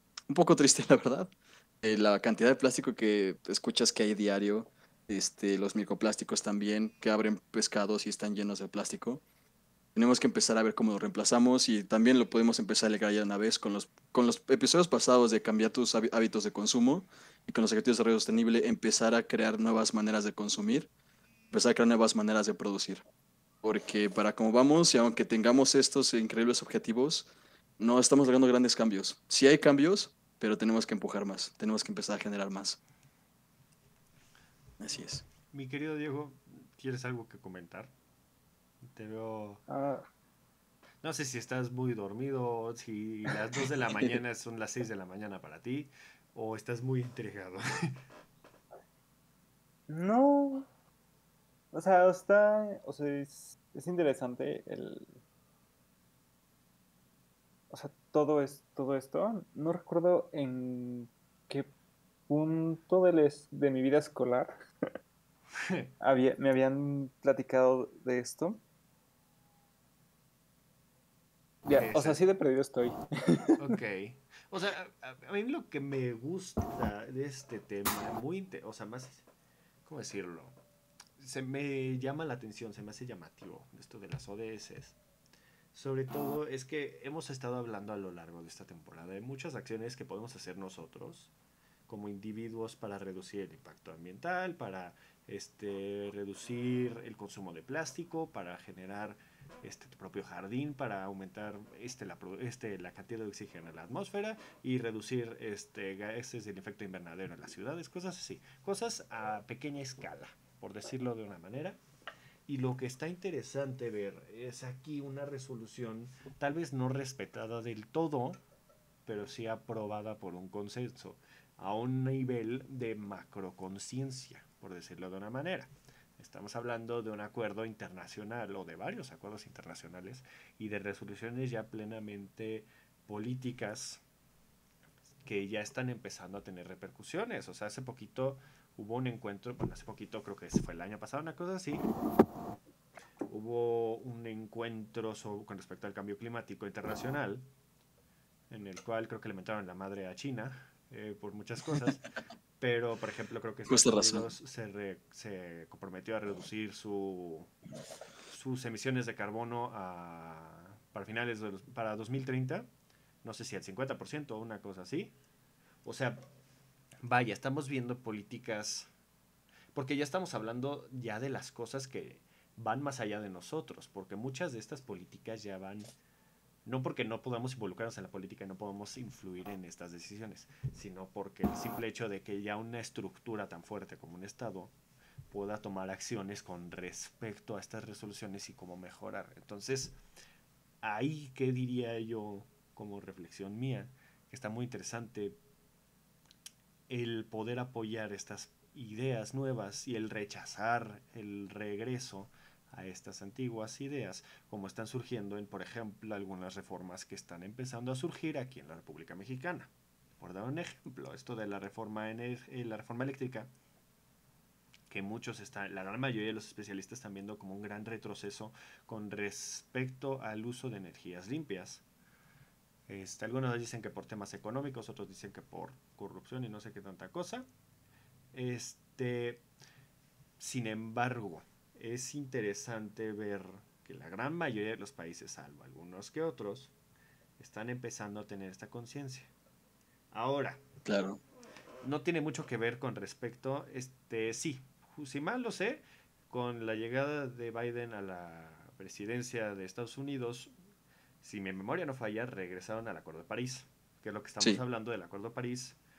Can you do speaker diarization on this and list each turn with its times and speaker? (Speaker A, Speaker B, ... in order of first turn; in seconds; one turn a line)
Speaker A: 0.3-9.2
Speaker A: 9.9-20.9
Speaker A: 21.5-23.1
Speaker A: 23.6-32.8
Speaker A: 34.8-35.2
Speaker B: 35.5-37.9
Speaker B: 38.9-39.6
Speaker C: 39.7-40.0
Speaker B: 41.0-47.6
Speaker C: 49.9-50.7
Speaker C: 51.7-55.2
Speaker C: 57.7-61.7
Speaker C: 62.3-64.6
Speaker B: 65.6-65.9
Speaker C: 66.0-68.6
Speaker C: 71.7-73.8
Speaker B: 71.8-72.2
Speaker B: 73.6-79.2
Speaker B: 79.8-80.6
Speaker B: 81.2-85.0
Speaker B: 85.7-91.3
Speaker B: 91.9-111.8
Speaker B: 112.5-118.4
Speaker B: 119.1-134.0
Speaker B: 135.2-141.8
Speaker B: 143.3-147.5
Speaker B: 148.5-152.0
Speaker B: 152.6-157.5
Speaker A: 153.7-154.3
Speaker B: 158.3-162.7
Speaker B: 163.2-165.2
Speaker B: 165.8-166.2
Speaker B: 167.0-168.9
Speaker B: 169.7-175.9
Speaker B: 176.7-184.7
Speaker B: 185.3-190.0
Speaker B: 190.8-195.4
Speaker B: 196.9-213.5
Speaker B: 214.9-221.8
Speaker B: 222.9-227.5
Speaker B: 228.3-229.4
Speaker B: 230.4-236.7
Speaker B: 237.4-239.3
Speaker B: 240.1-240.6
Speaker A: 240.9-241.2
Speaker B: 241.8-250.5
Speaker B: 251.2-255.8